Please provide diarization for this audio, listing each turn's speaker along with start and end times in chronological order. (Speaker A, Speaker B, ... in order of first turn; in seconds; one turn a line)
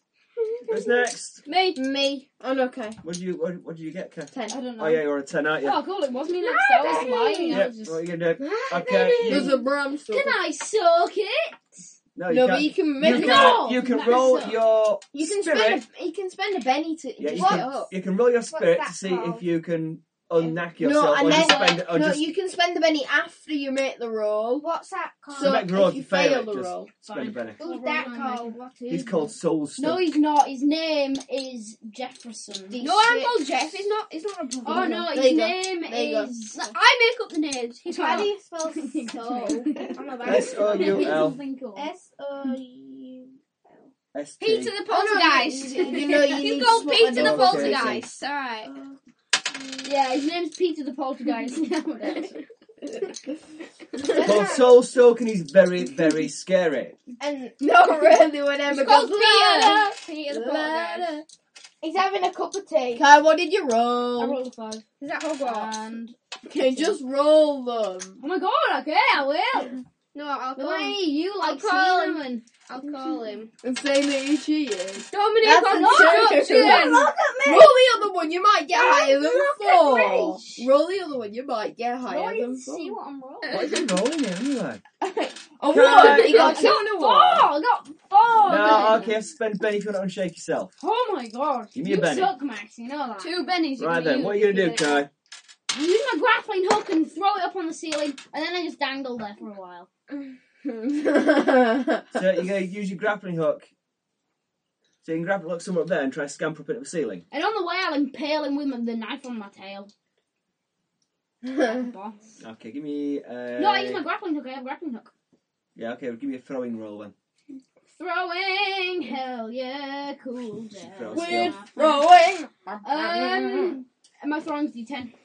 Speaker A: 0.7-1.4
Speaker B: 1.4-1.8
Speaker C: 1.7-3.0
Speaker A: 3.0-5.8
Speaker C: 4.3-4.6
Speaker B: 4.5-5.0
Speaker B: 5.6-8.0
Speaker D: 6.8-7.7
Speaker C: 6.8-7.3
Speaker A: 7.5-9.5
Speaker D: 8.6-9.1
Speaker B: 8.9-11.9
Speaker C: 9.2-10.4
Speaker A: 12.1-15.8
Speaker C: 12.3-13.8
Speaker B: 13.0-14.6
Speaker C: 15.1-17.9
Speaker A: 17.2-22.3
Speaker D: 17.3-17.9
Speaker D: 18.5-19.4
Speaker C: 20.8-24.7
Speaker B: 21.2-21.7
Speaker D: 24.6-25.6
Speaker C: 25.3-26.9
Speaker A: 25.3-27.6
Speaker B: 27.0-28.6
Speaker D: 27.6-29.3
Speaker A: 28.9-30.1
Speaker B: 29.8-32.8
Speaker C: 32.7-33.9
Speaker E: 32.8-35.1
Speaker B: 34.6-36.7
Speaker C: 34.7-36.3
Speaker E: 36.6-38.3
Speaker B: 37.9-41.9
Speaker D: 37.9-43.9
Speaker A: 40.2-41.4
Speaker A: 44.1-44.7
Speaker E: 44.4-48.7
Speaker D: 44.9-46.9
Speaker C: 44.9-48.0
Speaker A: 47.1-48.1
Speaker D: 48.6-49.0
Speaker D: 49.6-49.9
Speaker B: 49.8-52.4
Speaker D: 54.0-54.7
Speaker A: 54.2-57.0
Speaker D: 57.2-58.1
Speaker C: 57.6-61.2
Speaker B: 58.7-59.8
Speaker E: 59.0-61.2
Speaker D: 61.8-63.0
Speaker C: 62.9-64.4
Speaker B: 64.2-64.8
Speaker E: 65.0-65.7
Speaker B: 65.4-67.0
Speaker C: 66.5-68.2
Speaker B: 68.2-69.8
Speaker E: 70.1-73.5
Speaker B: 70.5-72.4
Speaker C: 73.6-83.0
Speaker E: 75.0-77.1
Speaker B: 75.6-77.8
Speaker D: 77.2-77.7
Speaker B: 78.7-80.7
Speaker B: 82.0-83.7
Speaker E: 83.4-83.8
Speaker A: 83.5-84.8
Speaker C: 85.0-87.5
Speaker A: 85.7-86.7
Speaker B: 85.8-89.2
Speaker A: 88.4-90.7
Speaker B: 90.8-93.4
Speaker A: 91.7-92.3
Speaker E: 93.2-95.1
Speaker A: 93.8-95.1
Speaker B: 95.7-99.9
Speaker C: 100.6-102.2
Speaker A: 102.1-103.7
Speaker A: 105.0-107.2
Speaker B: 107.3-109.9
Speaker C: 111.4-111.8
Speaker B: 111.6-112.4
Speaker A: 112.4-114.0
Speaker B: 113.6-115.1
Speaker A: 115.8-117.1
Speaker B: 117.9-122.2
Speaker A: 120.7-121.6
Speaker C: 121.1-123.8
Speaker B: 122.8-125.1